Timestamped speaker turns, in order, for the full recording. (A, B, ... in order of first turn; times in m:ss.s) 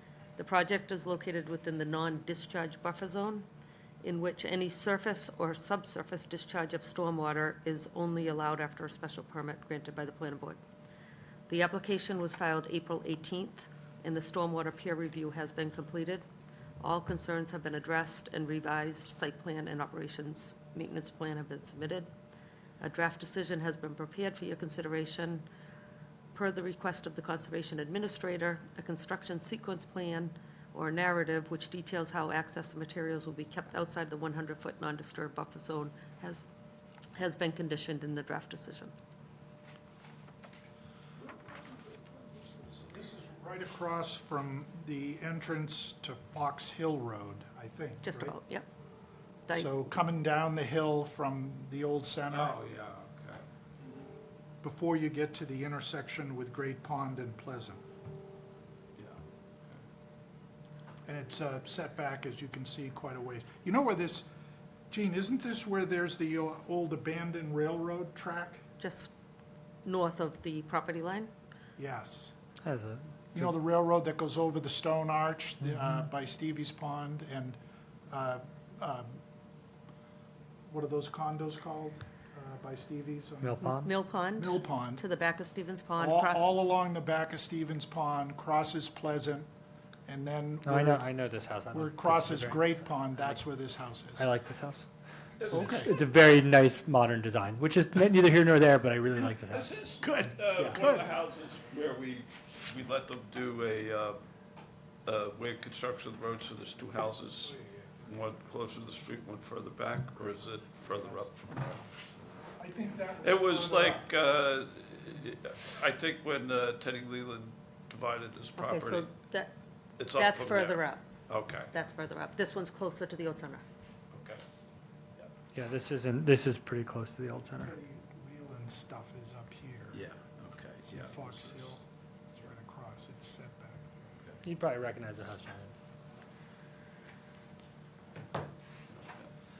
0:00.4-0:03.5 A
0:04.0-0:10.6 A
0:11.5-0:16.2 A
0:16.8-0:22.1 A
0:22.8-0:25.4 A
0:26.3-0:36.4 A
0:37.1-0:38.9 A
0:42.7-0:48.4 B
0:48.0-0:48.6 A
0:49.4-0:49.8 A
0:49.5-0:52.6 B
0:52.3-0:53.4 C
0:54.6-0:57.8 B
0:59.0-0:59.8 C
1:01.0-1:04.3 B
1:04.9-1:08.6 B
1:08.8-1:09.1 A
1:09.8-1:11.3 A
1:11.8-1:12.3 B
1:12.6-1:13.5 D
1:13.3-1:17.6 B
1:18.1-1:19.2 B
1:20.7-1:23.6 B
1:23.4-1:23.9 D
1:23.6-1:26.7 A
1:24.4-1:25.0 B
1:26.0-1:29.5 B
1:30.0-1:31.0 B
1:30.6-1:33.4 D
1:31.7-1:34.3 B
1:34.2-1:34.9 D
1:35.4-1:35.9 C
1:35.5-1:35.9 B
1:35.5-1:39.7 D
1:39.5-1:44.2 C
1:40.6-1:41.0 D
1:45.0-1:51.8 C
1:50.9-1:51.2 B
1:52.6-1:54.1 B
1:53.2-1:59.1 C
1:58.6-1:59.5 A
2:00.0-2:01.7 C
2:00.1-2:01.0 A
2:01.7-2:03.6 A
2:04.1-2:04.4 C
2:05.5-2:07.7 D
2:07.6-2:10.0 B
2:09.9-2:11.7 C
2:10.8-2:14.0 B
2:14.4-2:15.8 D
2:18.9-2:19.3 C